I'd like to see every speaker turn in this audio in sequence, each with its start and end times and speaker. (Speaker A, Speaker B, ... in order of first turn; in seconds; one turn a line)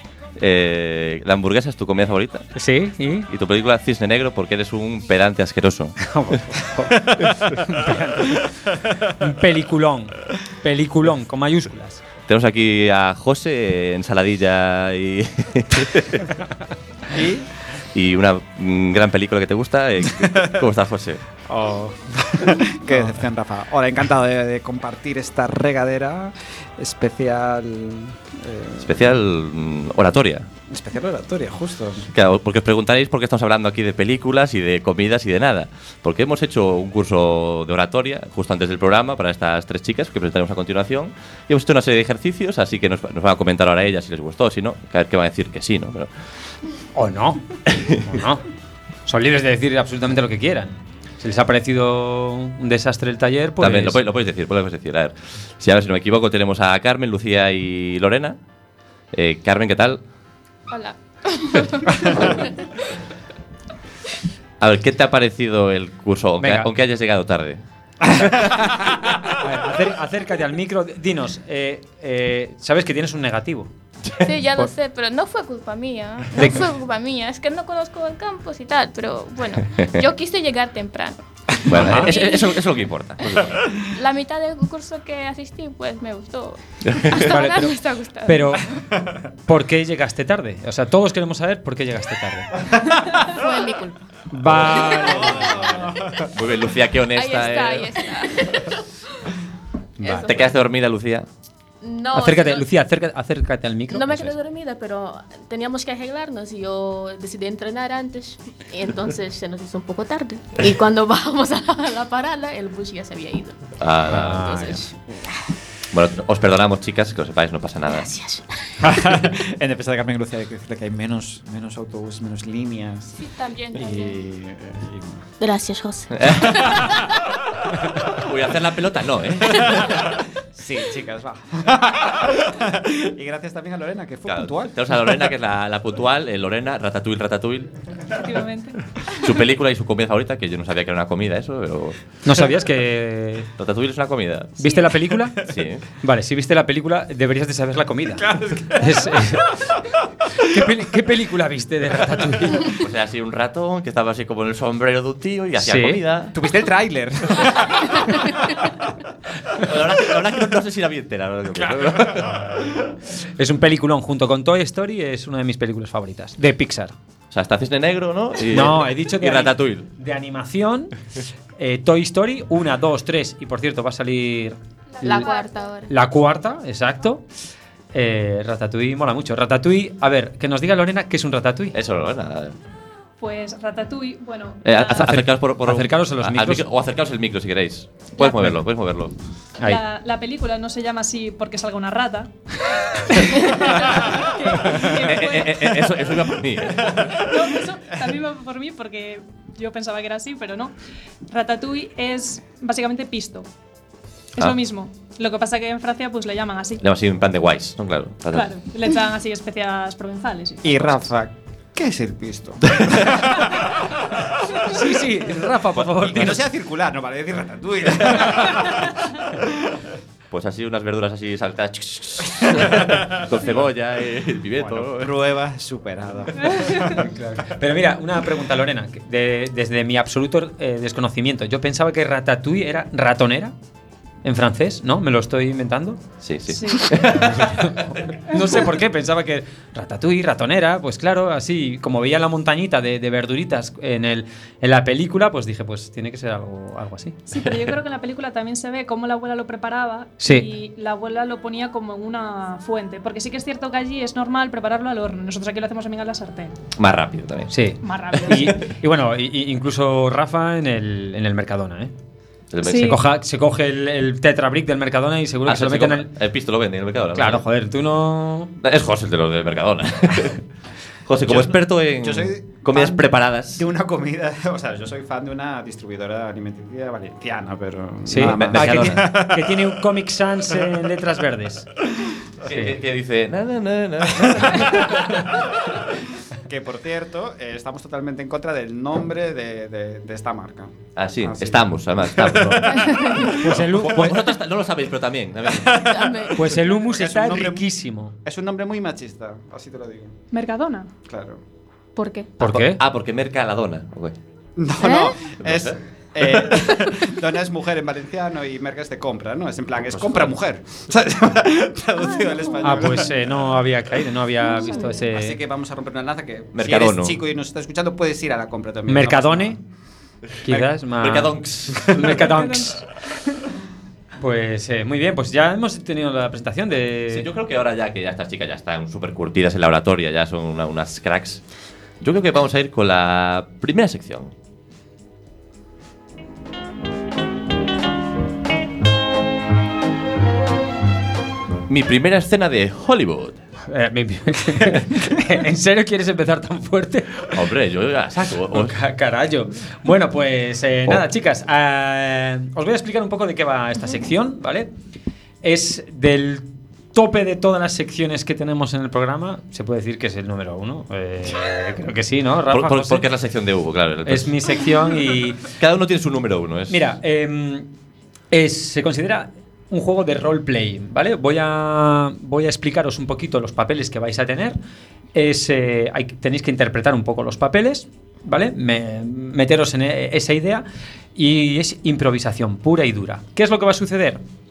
Speaker A: 0.4-2.5
Speaker B: 2.5-3.3
Speaker A: 3.3-6.0
Speaker B: 6.0-12.0
Speaker A: 12.2-16.3
Speaker C: 17.1-17.5
Speaker A: 17.9-21.2
Speaker C: 21.5-29.1
Speaker A: 28.8-30.5
Speaker C: 30.7-32.1
Speaker A: 32.1-46.1
Speaker B: 47.0-48.4
Speaker A: 47.7-48.0
Speaker B: 49.0-54.0
Speaker A: 53.6-58.4
Speaker A: 59.1-60.0
Speaker D: 60.7-62.8
Speaker A: 64.6-67.6
Speaker B: 66.4-66.7
Speaker B: 69.2-73.7
Speaker D: 74.2-81.2
Speaker A: 81.6-83.6
Speaker B: 81.7-82.1
Speaker D: 81.8-82.6
Speaker D: 83.4-88.6
Speaker A: 86.9-87.3
Speaker B: 87.1-88.7
Speaker B: 89.5-92.6
Speaker E: 93.2-94.1
Speaker B: 94.3-95.9
Speaker A: 94.5-94.8
Speaker E: 94.7-95.6
Speaker A: 96.3-98.0
Speaker D: 97.1-98.7
Speaker E: 97.5-98.6
Speaker B: 100.0-100.2
Speaker E: 100.0-100.6
Speaker A: 100.2-101.2
Speaker E: 101.8-102.7
Speaker B: 102.1-104.3
Speaker E: 103.9-113.7
Speaker A: 113.8-114.6
Speaker B: 114.1-114.9
Speaker E: 114.3-115.4
Speaker A: 115.9-118.1
Speaker E: 117.9-118.6
Speaker C: 118.8-123.2
Speaker D: 123.1-124.2
Speaker C: 123.7-125.2
Speaker E: 125.4-126.2
Speaker A: 126.1-127.0
Speaker A: 128.0-130.2
Speaker C: 130.5-135.2
Speaker A: 134.3-137.7
Speaker F: 138.1-138.8
Speaker A: 139.1-142.0
Speaker B: 142.2-143.5
Speaker A: 143.6-144.7
Speaker B: 144.6-152.8
Speaker A: 145.4-145.8
Speaker C: 148.2-149.4
Speaker A: 152.7-156.3
Speaker B: 155.6-156.0
Speaker C: 156.3-158.7
Speaker A: 159.5-162.5
Speaker B: 163.3-166.9
Speaker A: 167.3-169.9
Speaker B: 168.5-170.9
Speaker B: 171.6-175.3
Speaker D: 174.9-175.6
Speaker E: 175.0-175.9
Speaker B: 175.9-177.2
Speaker B: 177.9-181.8
Speaker A: 181.7-182.5
Speaker F: 183.2-185.0
Speaker A: 184.6-189.1
Speaker B: 185.0-186.6
Speaker F: 189.6-192.3
Speaker F: 193.0-195.9
Speaker A: 194.7-197.2
Speaker F: 196.8-200.7
Speaker F: 201.2-203.5
Speaker F: 204.3-206.8
Speaker A: 206.8-208.5
Speaker F: 208.3-210.7
Speaker C: 210.6-214.7
Speaker A: 212.7-213.0
Speaker B: 214.6-216.4
Speaker C: 216.0-219.8
Speaker A: 220.3-225.1
Speaker C: 222.6-223.0
Speaker C: 224.6-227.1
Speaker B: 226.9-233.5
Speaker B: 234.2-236.0
Speaker A: 236.2-237.8
Speaker F: 236.5-236.9
Speaker B: 237.0-247.2
Speaker F: 247.3-256.6
Speaker B: 250.2-250.5
Speaker A: 256.7-257.5
Speaker B: 257.5-261.9
Speaker F: 257.8-258.6
Speaker A: 262.5-263.0
Speaker B: 262.6-266.1
Speaker F: 262.7-262.9
Speaker A: 265.4-267.4
Speaker B: 267.1-268.5
Speaker A: 268.6-270.4
Speaker A: 271.1-273.7
Speaker C: 271.3-279.6
Speaker B: 278.1-281.7
Speaker A: 278.1-279.1
Speaker A: 282.4-285.3
Speaker B: 282.5-282.8
Speaker C: 286.4-293.3
Speaker A: 290.9-296.0
Speaker B: 293.2-294.2
Speaker C: 295.5-297.7
Speaker E: 295.8-296.4
Speaker B: 296.3-298.1
Speaker C: 298.2-300.1
Speaker F: 300.3-300.9
Speaker C: 301.1-301.4
Speaker E: 301.9-302.3
Speaker B: 302.4-302.8
Speaker A: 302.4-304.1
Speaker C: 304.6-313.5
Speaker E: 304.8-305.2
Speaker A: 305.4-305.8
Speaker A: 309.9-310.3
Speaker B: 312.6-315.4
Speaker C: 315.0-319.6
Speaker A: 316.5-317.2
Speaker B: 318.9-319.6
Speaker B: 320.4-322.8
Speaker A: 320.5-322.2
Speaker F: 322.3-322.7
Speaker B: 324.2-327.3
Speaker A: 327.1-331.4
Speaker A: 332.0-334.3
Speaker A: 341.7-343.4
Speaker B: 343.7-347.5
Speaker A: 347.3-348.8
Speaker B: 348.1-354.7
Speaker B: 355.4-363.1
Speaker A: 362.5-364.5
Speaker B: 364.1-365.5
Speaker A: 365.6-366.8
Speaker B: 366.7-367.7
Speaker B: 368.3-374.6
Speaker B: 375.1-384.2